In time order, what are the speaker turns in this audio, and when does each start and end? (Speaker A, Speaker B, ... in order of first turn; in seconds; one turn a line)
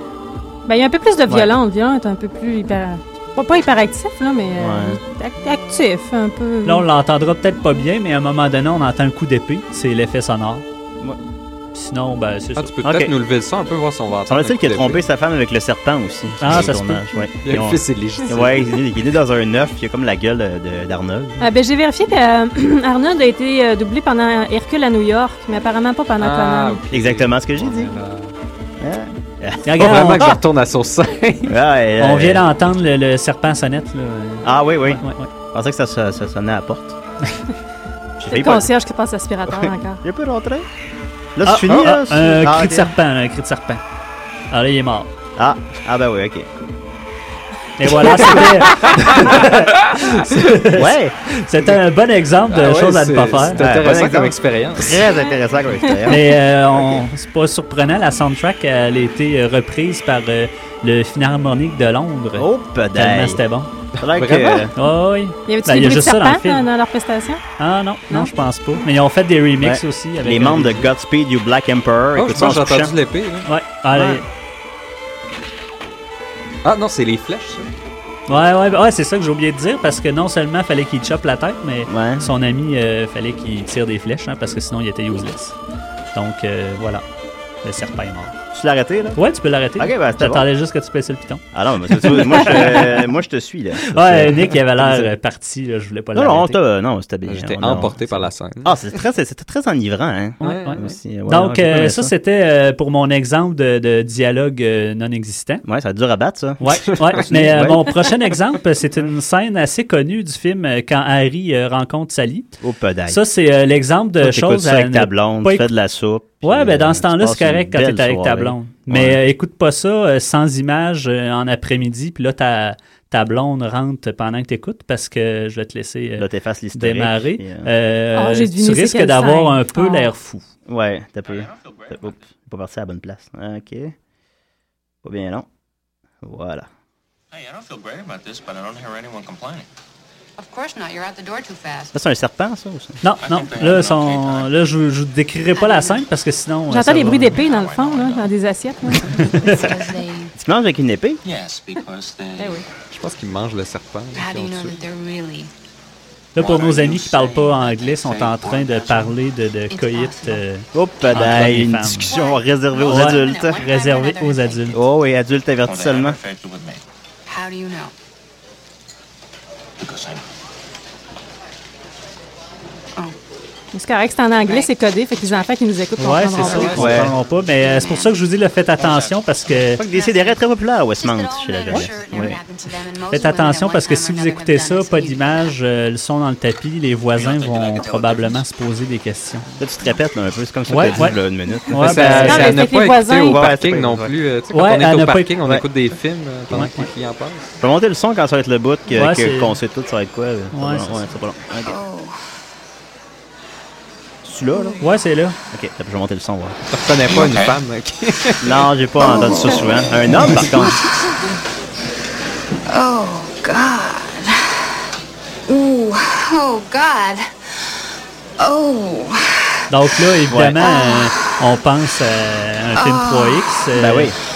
Speaker A: 0.7-6.9
Speaker B: 1.3-1.5
Speaker B: 4.5-5.0
Speaker C: 6.6-10.6
Speaker C: 11.7-12.7
Speaker D: 12.6-15.0
Speaker B: 12.8-13.1
Speaker B: 14.3-21.5
Speaker C: 16.4-17.0
Speaker D: 17.4-18.8
Speaker A: 21.4-26.8
Speaker D: 26.2-28.3
Speaker B: 26.9-27.9
Speaker B: 28.8-30.3
Speaker C: 29.6-30.4
Speaker D: 29.8-31.6
Speaker B: 31.5-32.4
Speaker C: 32.0-35.3
Speaker B: 34.4-37.0
Speaker B: 38.2-38.7
Speaker A: 38.3-40.0
Speaker B: 39.5-40.7
Speaker B: 41.4-42.9
Speaker C: 41.4-43.8
Speaker C: 44.5-45.1
Speaker B: 45.4-46.5
Speaker C: 47.8-53.7
Speaker D: 48.7-49.3
Speaker B: 50.7-51.1
Speaker D: 52.5-55.0
Speaker B: 53.6-57.0
Speaker C: 56.1-63.7
Speaker B: 62.4-63.4
Speaker B: 64.0-64.7
Speaker D: 64.0-64.7
Speaker C: 64.8-66.7
Speaker A: 65.5-67.4
Speaker C: 67.6-70.9
Speaker B: 69.6-72.9
Speaker D: 72.1-73.5
Speaker C: 73.5-74.2
Speaker B: 73.9-74.2
Speaker D: 76.6-77.7
Speaker C: 78.3-85.5
Speaker B: 81.9-82.3
Speaker C: 86.1-87.0
Speaker C: 87.6-88.3
Speaker B: 88.5-89.2
Speaker C: 89.2-93.0
Speaker B: 89.8-90.5
Speaker B: 91.5-95.1
Speaker C: 93.9-96.6
Speaker B: 96.1-102.1
Speaker D: 97.2-98.8
Speaker D: 100.4-100.9
Speaker C: 100.4-105.6
Speaker B: 105.7-108.0
Speaker C: 106.6-112.5
Speaker D: 106.9-107.2
Speaker B: 112.6-113.2
Speaker C: 113.1-115.7
Speaker B: 114.2-119.2
Speaker C: 116.4-130.4
Speaker B: 126.2-127.7
Speaker A: 128.1-130.1
Speaker B: 130.7-133.9
Speaker E: 131.2-132.2
Speaker B: 135.0-135.5
Speaker B: 136.2-136.7
Speaker E: 137.3-139.7
Speaker F: 140.4-142.0
Speaker B: 141.9-143.0
Speaker C: 143.0-147.4
Speaker E: 143.2-144.5
Speaker F: 145.5-146.1
Speaker A: 146.7-149.2
Speaker E: 147.3-148.3
Speaker F: 149.2-150.3
Speaker C: 149.2-149.7
Speaker B: 150.3-151.2
Speaker E: 151.2-152.7
Speaker D: 152.9-154.8
Speaker F: 154.1-155.5
Speaker C: 156.3-162.1
Speaker E: 156.3-159.1
Speaker F: 158.6-159.0
Speaker F: 159.7-160.4
Speaker B: 160.7-163.6
Speaker F: 162.0-164.7
Speaker C: 162.8-164.8
Speaker B: 164.7-166.2
Speaker E: 165.6-166.8
Speaker F: 167.3-167.9
Speaker E: 169.8-170.2
Speaker A: 173.7-177.1
Speaker F: 174.4-174.7
Speaker C: 176.0-179.8
Speaker F: 176.4-176.8
Speaker B: 176.7-177.1
Speaker F: 177.6-178.2
Speaker E: 178.8-179.3
Speaker B: 179.8-182.4
Speaker F: 179.8-180.4
Speaker F: 180.9-185.5
Speaker C: 183.1-189.4
Speaker E: 187.2-188.5
Speaker B: 189.6-192.2
Speaker C: 190.7-191.2
Speaker C: 191.7-192.7
Speaker D: 191.8-197.4
Speaker A: 192.1-193.5
Speaker B: 193.2-194.1
Speaker C: 194.5-195.4
Speaker C: 196.5-196.8
Speaker B: 197.6-201.8
Speaker C: 198.9-199.6
Speaker C: 200.5-201.0
Speaker F: 201.6-202.1
Speaker B: 204.2-204.8
Speaker C: 204.8-205.3
Speaker B: 205.5-206.6
Speaker D: 206.7-208.7
Speaker E: 207.1-207.6
Speaker B: 208.4-210.8
Speaker F: 209.0-209.9
Speaker F: 212.7-214.5
Speaker F: 215.5-217.2
Speaker F: 218.4-219.5
Speaker C: 219.7-224.1
Speaker B: 220.3-220.6
Speaker F: 220.6-221.1
Speaker F: 222.7-223.6
Speaker B: 223.7-224.1